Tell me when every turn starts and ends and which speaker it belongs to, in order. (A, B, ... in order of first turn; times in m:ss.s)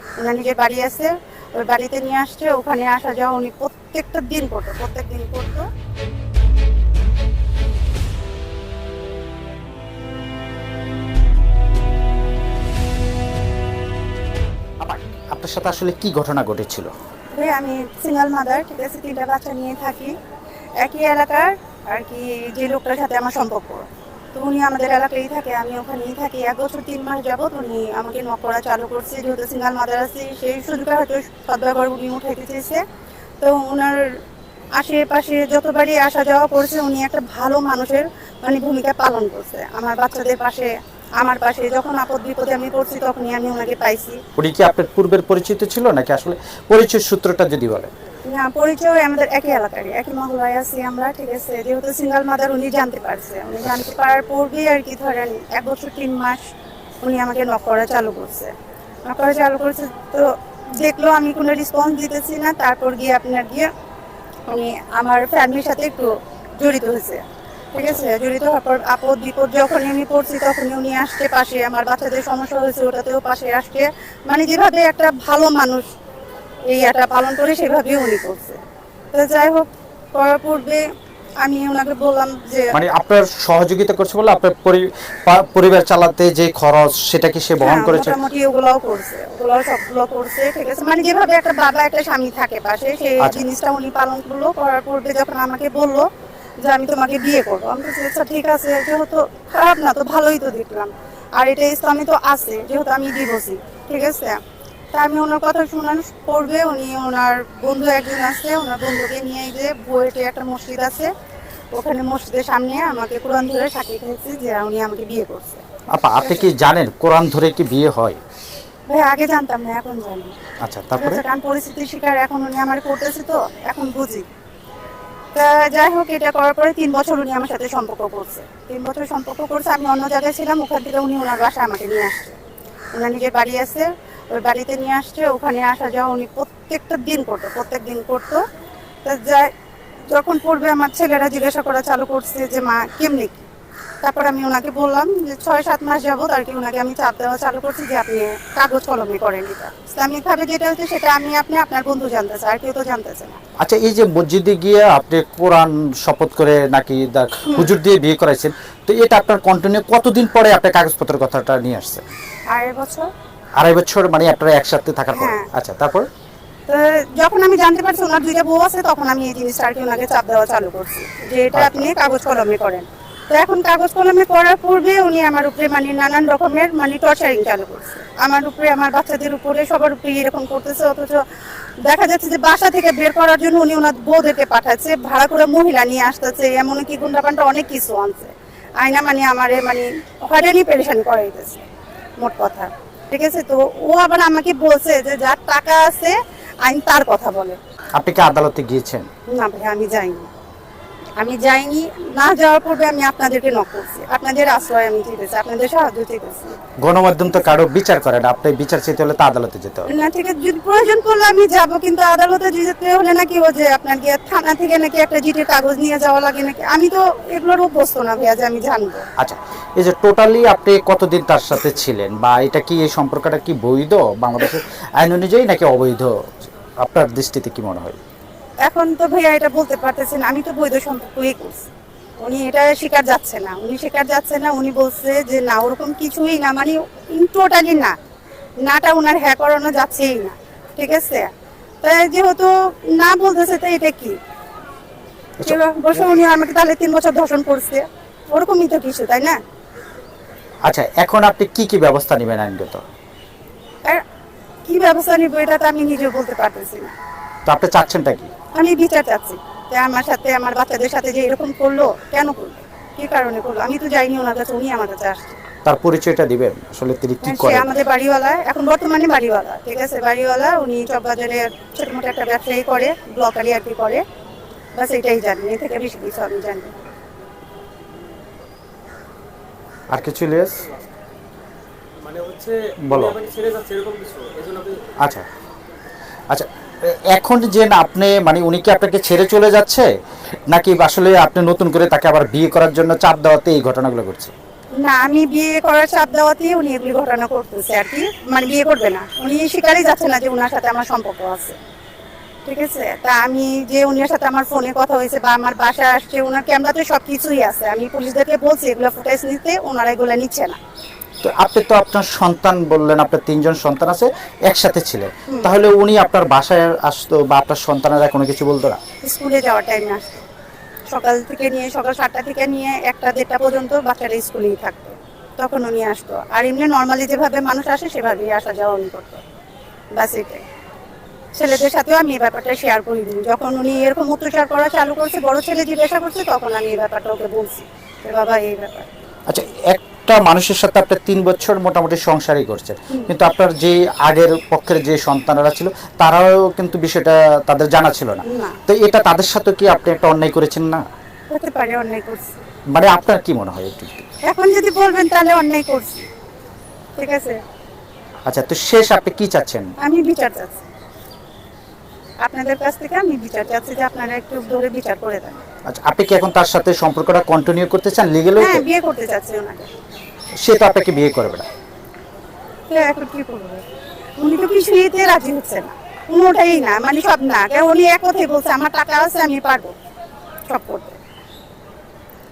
0:00.2-0:05.7 A
0:14.8-0:16.9 B
0:17.3-0:20.1 A
0:20.8-0:32.8 A
0:33.4-0:34.2 A
0:34.7-0:44.2 A
0:44.4-0:47.9 B
0:48.2-0:56.4 A
0:57.0-0:58.5 A
0:59.0-1:03.7 A
1:04.5-1:15.9 A
1:16.7-1:18.6 A
1:19.1-1:20.8 A
1:21.4-1:22.7 A
1:22.7-1:28.2 B
1:27.6-1:36.0 A
1:33.2-1:33.5 B
1:36.6-1:44.4 A
1:44.9-1:51.1 A
1:51.7-1:55.6 A
1:55.9-1:58.2 B
1:56.2-1:56.5 A
1:58.9-2:00.4 A
2:00.6-2:01.2 B
2:01.0-2:04.3 A
2:05.3-2:12.4 A
2:12.9-2:18.4 A
2:19.0-2:19.5 A
2:20.1-2:23.5 A
2:24.0-2:33.4 A
2:33.6-2:42.0 B
2:42.5-2:43.1 A
2:43.6-2:46.1 B
2:45.1-2:45.5 A
2:46.7-3:01.2 A
2:51.5-2:51.9 B
3:01.8-3:11.6 A
3:12.2-3:17.6 A
3:18.0-3:19.1 B
3:19.3-3:20.3 A
3:21.2-3:26.6 A
3:26.8-3:29.9 B
3:29.9-3:39.0 A
3:39.2-3:48.0 B
3:48.6-3:51.7 A
3:52.2-3:58.0 A
3:58.6-4:01.3 A
4:01.8-4:04.2 A
4:05.4-4:06.1 B
4:05.4-4:09.4 A
4:10.6-4:12.8 B
4:14.6-4:16.9 A
4:17.4-4:18.3 B
4:18.5-4:25.4 A
4:25.6-4:27.7 B
4:27.2-4:34.0 A
4:34.7-4:36.7 A
4:39.9-4:40.6 B
4:42.0-4:44.9 C
4:42.8-4:43.2 B
4:45.0-4:45.2 B
4:46.3-4:49.9 B
4:50.5-4:54.3 B
4:54.8-5:01.6 A
5:02.4-5:10.6 A
5:11.2-5:18.8 B
5:19.0-5:20.2 A
5:20.9-5:29.2 A
5:29.9-5:30.4 A
5:31.4-5:38.9 A
5:39.3-5:50.8 B
5:48.2-5:48.6 A
5:51.3-5:52.4 A
5:52.7-5:54.1 B
5:54.2-5:56.1 A
5:57.0-5:57.4 A
5:58.2-5:59.7 B
5:59.8-6:00.6 A
6:02.2-6:05.4 A
6:05.7-6:08.6 B
6:08.4-6:09.7 A
6:10.4-6:11.5 B
6:12.7-6:13.6 A
6:14.2-6:19.7 A
6:20.5-6:21.0 A